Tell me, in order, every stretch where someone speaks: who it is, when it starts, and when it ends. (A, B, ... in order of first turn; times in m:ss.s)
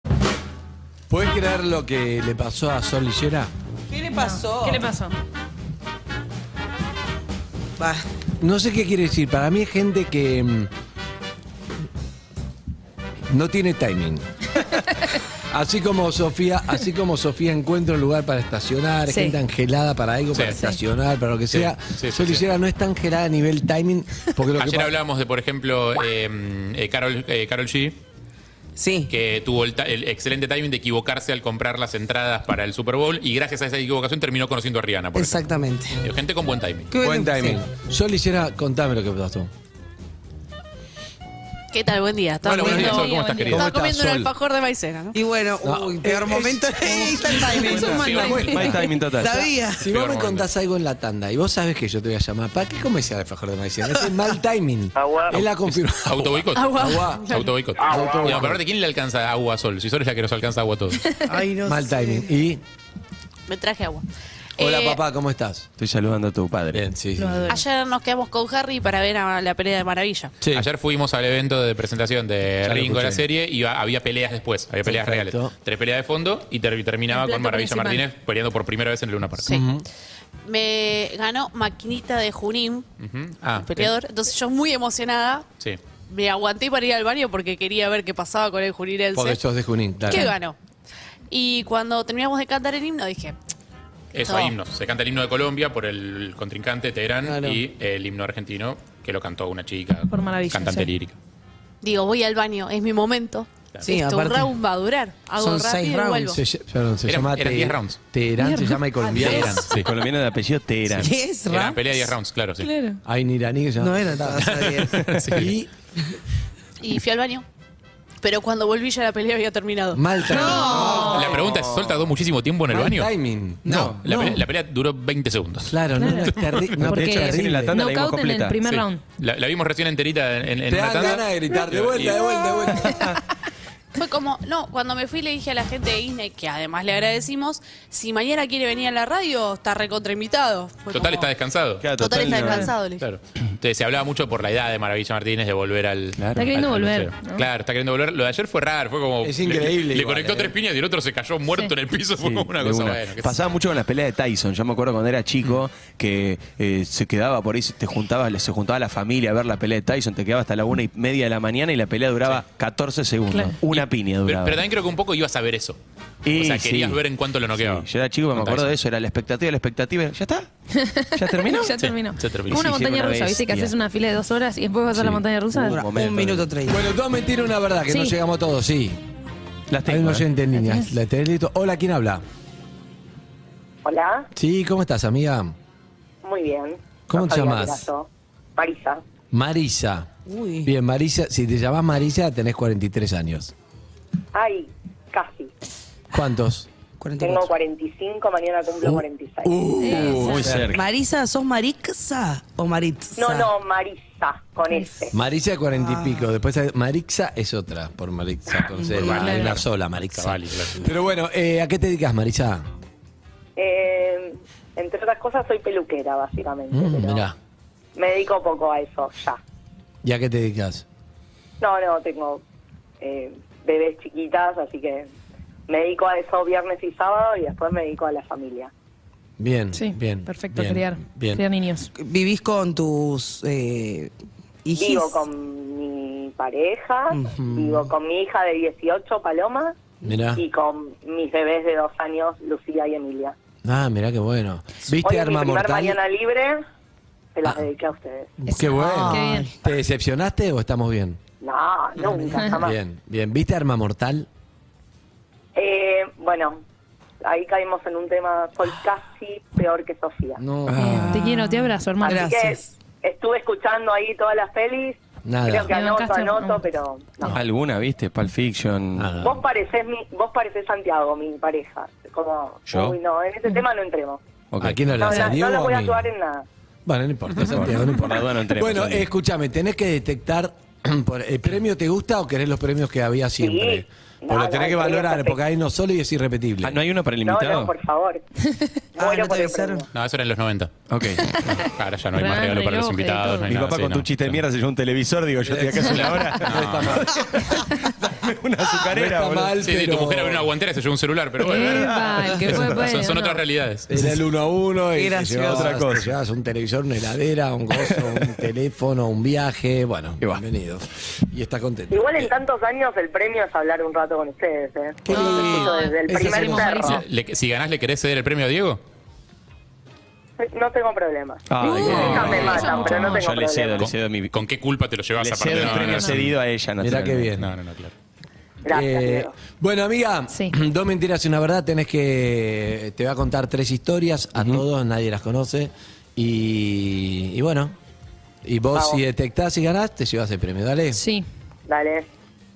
0:01.1-0:03.5 A
0:03.9-0:04.9 B
0:04.1-0:05.2 C
0:07.8-0:08.0 B
0:08.4-0:10.7 A
0:13.3-0:14.2 A
0:15.5-0:25.0 A
0:19.1-0:19.4 C
0:20.3-0:20.6 D
0:21.5-0:22.4 D
0:24.5-0:28.0 D
0:28.8-0:29.1 B
0:29.1-0:36.9 D
0:35.1-0:36.0 B
0:36.9-0:37.6 B
0:37.0-0:39.5 A
0:41.7-0:45.2 E
0:42.4-0:43.7 D
0:42.6-0:42.8 B
0:42.6-0:43.7 C
0:43.5-0:44.3 A
0:45.1-0:48.0 B
0:45.6-0:48.6 A
0:47.6-0:49.0 C
0:47.6-0:48.7 D
0:48.3-0:49.5 F
0:49.0-0:49.9 B
0:49.8-0:58.6 A
0:49.8-0:50.5 D
0:53.9-0:54.2 B
0:56.0-1:01.0 D
0:56.5-0:57.6 E
1:01.2-1:02.3 B
1:01.6-1:02.6 A
1:03.5-1:04.0 E
1:04.6-1:05.0 E
1:04.6-1:05.7 A
1:05.8-1:06.8 F
1:06.7-1:07.5 A
1:07.5-1:10.3 E
1:10.4-1:10.7 A
1:10.5-1:19.6 D
1:12.7-1:13.2 F
1:14.8-1:15.5 A
1:17.1-1:18.0 C
1:19.5-1:19.8 A
1:20.4-1:22.8 E
1:23.0-1:23.9 D
1:23.6-1:25.4 E
1:26.1-1:29.4 E
1:29.1-1:30.3 A
1:30.1-1:30.6 E
1:31.3-1:33.4 E
1:34.1-1:41.2 D
1:34.2-1:34.5 E
1:37.2-1:37.6 B
1:40.1-1:40.9 C
1:41.8-1:46.4 E
1:43.8-1:44.5 B
1:45.3-1:46.4 B
1:46.3-1:49.6 A
1:47.0-1:48.0 D
1:48.4-1:48.8 C
1:49.1-1:49.9 D
1:49.7-1:51.1 F
1:50.9-1:52.1 B
1:51.5-1:52.7 D
1:52.6-1:53.0 C
1:53.0-1:54.7 A
1:53.8-1:55.0 B
1:54.4-1:55.5 D
1:55.2-1:55.7 A
1:56.8-1:57.4 E
1:58.2-2:00.9 E
1:59.9-2:01.4 A
2:00.3-2:01.3 C
2:00.4-2:03.1 D
2:00.4-2:01.2 B
2:01.1-2:02.1 F
2:02.7-2:04.4 A
2:03.6-2:06.7 D
2:03.7-2:04.0 F
2:05.6-2:07.8 A
2:06.0-2:09.0 C
2:06.8-2:08.6 F
2:08.6-2:12.1 D
2:10.7-2:13.2 A
2:11.7-2:12.2 F
2:12.8-2:13.2 F
2:13.9-2:21.3 E
2:20.9-2:21.8 D
2:21.8-2:22.7 F
2:21.9-2:23.0 E
2:23.0-2:33.4 D
2:26.2-2:26.5 F
2:26.4-2:27.4 C
2:29.2-2:30.6 A
2:32.2-2:44.6 F
2:43.3-2:43.6 C
2:43.7-2:45.8 D
2:46.2-2:47.0 F
2:46.3-2:48.7 D
2:47.5-2:50.5 F
2:50.7-2:55.8 C
2:51.1-2:51.8 F
2:51.8-2:52.6 D
2:52.5-2:53.7 F
2:54.9-2:56.5 F
2:55.6-2:56.8 B
2:56.7-2:59.0 A
2:57.9-2:58.1 C
2:59.7-3:00.2 F
2:59.8-3:02.2 A
3:00.5-3:00.9 C
3:03.8-3:04.3 G
3:04.3-3:05.5 A
3:06.2-3:09.0 G
3:07.1-3:07.8 A
3:09.3-3:10.1 A
3:10.2-3:10.7 B
3:10.6-3:13.5 A
3:14.3-3:15.5 G
3:16.1-3:16.7 A
3:17.0-3:17.5 B
3:17.2-3:19.7 G
3:18.8-3:20.7 A
3:19.8-3:20.6 C
3:20.1-3:20.8 F
3:20.6-3:23.5 B
3:23.2-3:25.1 G
3:25.1-3:32.7 A
3:25.8-3:26.2 B
3:28.8-3:29.1 B
3:28.9-3:30.9 D
3:33.6-3:37.2 G
3:36.7-3:37.4 A
3:37.9-3:39.4 G
3:40.0-3:40.8 A
3:41.6-3:42.4 G
3:43.0-3:45.1 G
3:45.7-3:48.7 G
3:49.4-3:51.4 A
3:49.7-3:51.9 C
3:52.0-3:54.1 B
3:54.6-3:55.2 B
3:54.8-3:59.8 G
3:57.1-3:57.4 B
3:57.4-3:57.9 A
4:00.0-4:00.4 A
4:00.3-4:03.3 G
4:03.6-4:06.0 A
4:05.0-4:06.6 G
4:07.3-4:08.3 G
4:08.4-4:11.2 A
4:08.5-4:09.5 C
4:08.7-4:09.5 B
4:11.4-4:12.7 G
4:12.0-4:12.3 B
4:12.6-4:14.3 A
4:15.5-4:16.6 G
4:17.2-4:20.4 G
4:20.4-4:21.0 A
4:20.7-4:21.2 F
4:20.8-4:22.7 B
4:20.8-4:22.3 C
4:22.0-4:27.4 G
4:25.2-4:25.7 A
4:25.7-4:26.6 C
4:27.3-4:29.2 F
4:29.0-4:29.4 A
4:29.2-4:34.2 G
4:32.7-4:33.0 F
4:34.5-4:35.0 F
4:34.6-4:36.1 A
4:35.0-4:36.4 G
4:36.8-4:46.8 A
4:37.4-4:39.1 F
4:43.4-4:45.4 G
4:46.6-4:47.7 F
4:47.2-4:48.2 G
4:49.0-4:49.8 G
4:49.0-4:49.8 B
4:49.9-4:50.7 D
4:50.9-4:51.3 F
4:51.2-4:53.5 C
4:51.5-4:54.4 D
4:53.5-4:59.6 F
4:55.4-4:57.5 A
4:56.0-4:57.0 D
4:58.8-5:00.5 A
4:59.6-5:03.9 D
5:01.4-5:03.4 C
5:03.9-5:12.3 A
5:04.9-5:05.7 B
5:05.5-5:06.1 F
5:07.8-5:08.3 F
5:11.9-5:17.0 G
5:15.1-5:16.6 A
5:15.1-5:17.0 C
5:16.8-5:18.8 D
5:20.4-5:23.9 G
5:21.5-5:24.4 F
5:21.6-5:23.3 C
5:21.9-5:22.3 D
5:21.9-5:22.3 A
5:23.8-5:26.3 D
5:25.2-5:27.3 F
5:25.5-5:26.2 C
5:26.8-5:27.5 A
5:27.4-5:27.9 D
5:28.6-5:29.3 G
5:28.7-5:37.8 A
5:38.4-5:41.0 A
5:38.7-5:39.0 G
5:40.9-5:41.3 C
5:41.7-5:42.0 G